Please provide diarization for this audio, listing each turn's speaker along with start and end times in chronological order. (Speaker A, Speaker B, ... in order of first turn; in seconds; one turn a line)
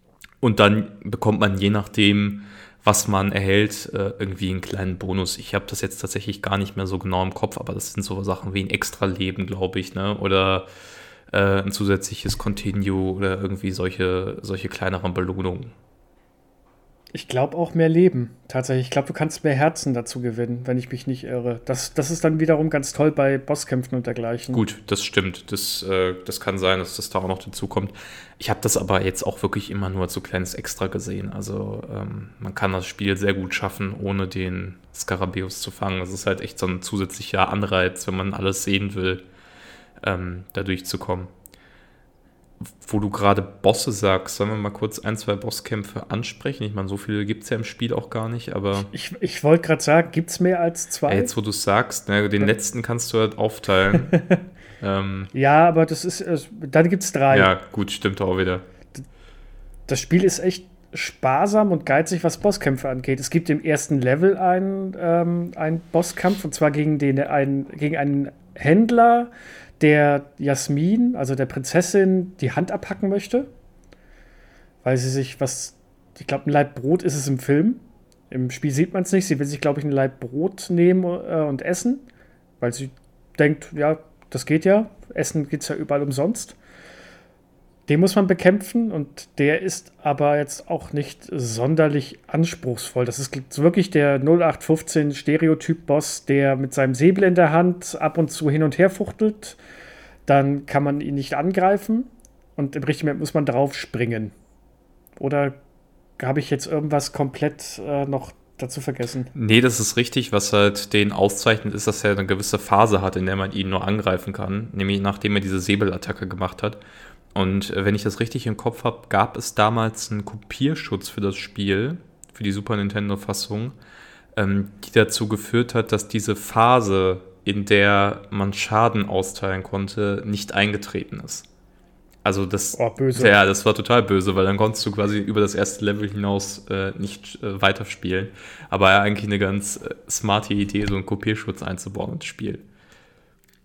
Speaker A: 0.4-10.7
Speaker A: 11.3-15.7
Speaker B: 17.1-24.6
Speaker A: 24.5-39.2
Speaker A: 40.0-41.3
Speaker A: 42.6-48.9
Speaker B: 48.8-51.3
Speaker A: 51.1-54.2
Speaker B: 54.1-54.4
Speaker A: 54.8-55.3
Speaker B: 55.3-57.5
Speaker A: 57.3-58.6
Speaker B: 59.9-73.5
Speaker B: 74.8-82.0
Speaker B: 82.6-86.6
Speaker B: 87.9-99.6
Speaker B: 100.3-104.3
Speaker B: 105.2-105.5
Speaker B: 106.2-109.3
Speaker A: 109.3-116.8
Speaker A: 117.3-123.8
Speaker A: 124.3-131.5
Speaker A: 132.2-142.7
Speaker B: 132.8-133.3